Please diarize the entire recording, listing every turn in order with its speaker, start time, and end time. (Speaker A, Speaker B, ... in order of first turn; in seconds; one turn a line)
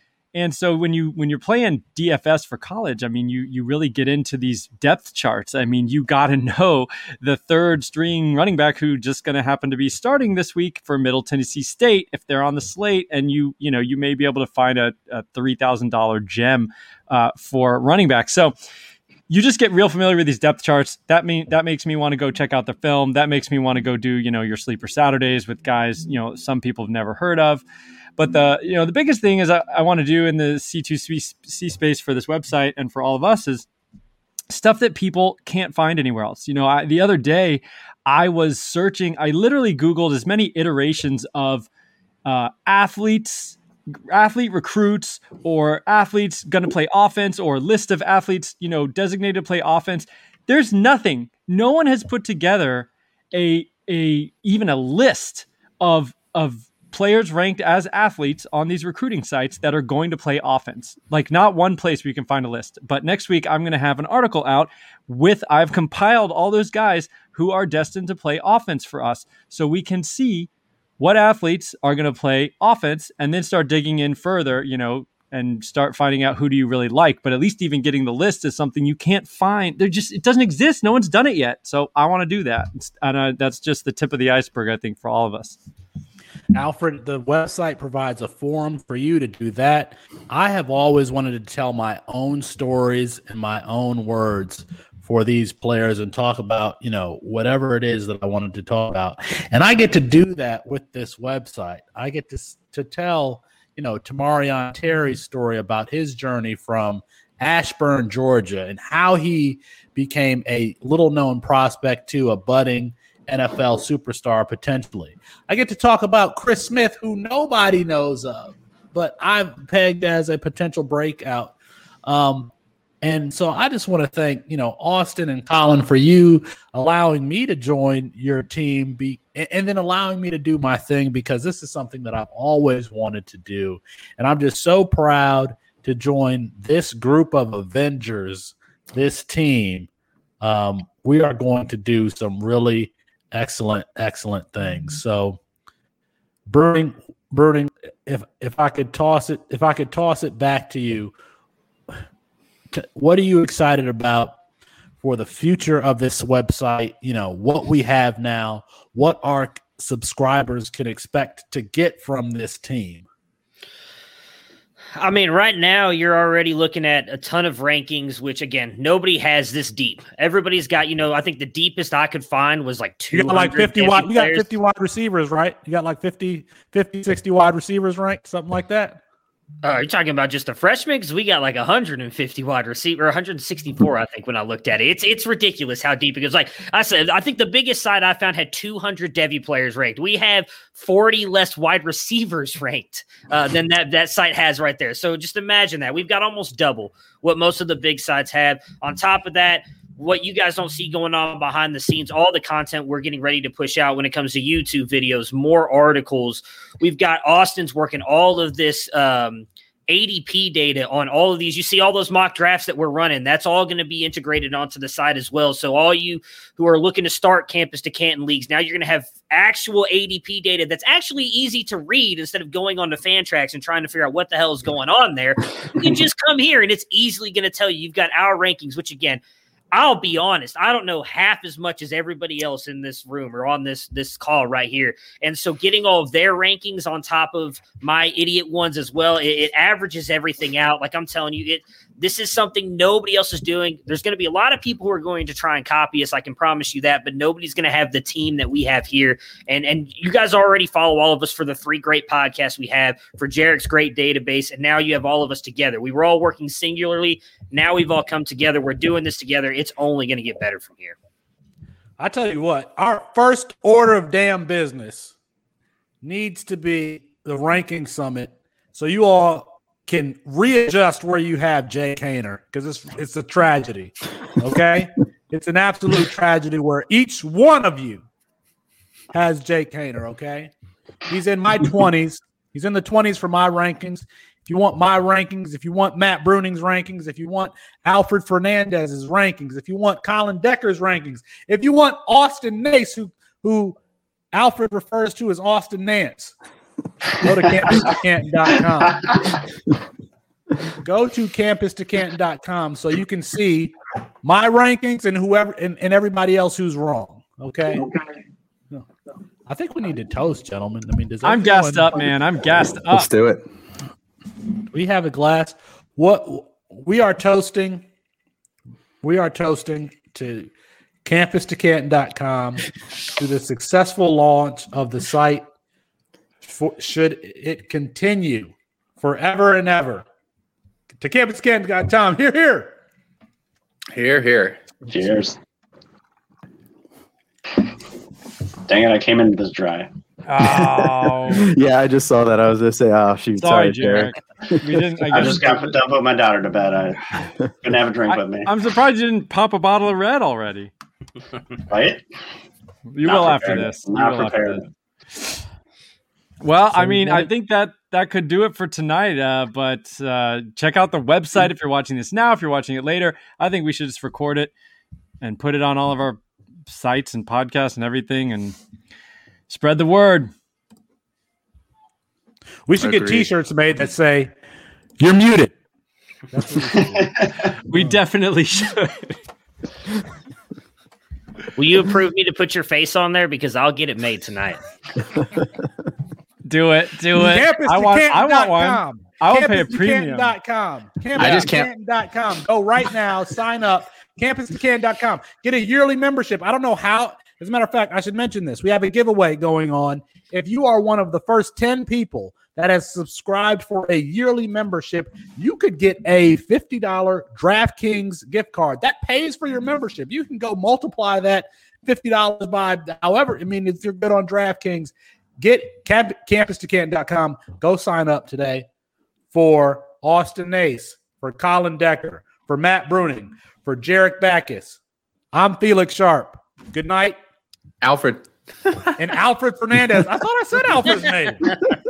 Speaker A: 0.3-18.6
Speaker A: 19.3-27.6
Speaker A: 28.2-33.7
Speaker A: 34.5-41.7
Speaker A: 42.2-43.6
Speaker A: 44.1-85.6
Speaker B: 86.5-121.5
Speaker B: 122.1-139.9
Speaker B: 140.4-145.4
Speaker B: 146.5-151.2
Speaker B: 152.7-154.4
Speaker B: 155.0-163.1
Speaker C: 165.0-174.5
Speaker B: 173.1-179.0
Speaker C: 179.6-261.0
Speaker B: 262.0-265.1
Speaker B: 266.0-278.0
Speaker B: 279.1-280.5
Speaker B: 281.1-293.8
Speaker B: 294.3-296.4
Speaker B: 297.2-299.2
Speaker B: 300.8-307.9
Speaker B: 309.5-312.1
Speaker A: 311.2-313.1
Speaker D: 312.9-313.4
Speaker B: 314.7-317.9
Speaker B: 319.0-320.5
Speaker B: 321.0-325.5
Speaker B: 326.4-330.1
Speaker B: 331.0-332.8
Speaker E: 333.9-334.7
Speaker F: 334.9-335.4
Speaker F: 338.7-339.9
Speaker A: 340.3-341.5
Speaker D: 340.4-344.8
Speaker A: 343.4-345.8
Speaker F: 345.1-348.5
Speaker A: 348.1-350.7
Speaker F: 351.6-352.0
Speaker A: 352.9-354.6
Speaker F: 353.0-354.6
Speaker A: 356.4-364.5
Speaker A: 365.2-368.6
Speaker A: 369.5-370.3
Speaker B: 372.7-374.3
Speaker E: 372.8-373.2
Speaker B: 375.0-375.6
Speaker B: 376.3-377.2
Speaker F: 376.9-377.4
Speaker A: 377.7-379.2
Speaker C: 381.6-384.6
Speaker A: 386.4-390.3
Speaker B: 387.1-418.7
Speaker E: 391.2-391.7
Speaker B: 419.3-424.8
Speaker B: 425.3-427.2
Speaker E: 427.8-428.7
Speaker B: 429.0-431.5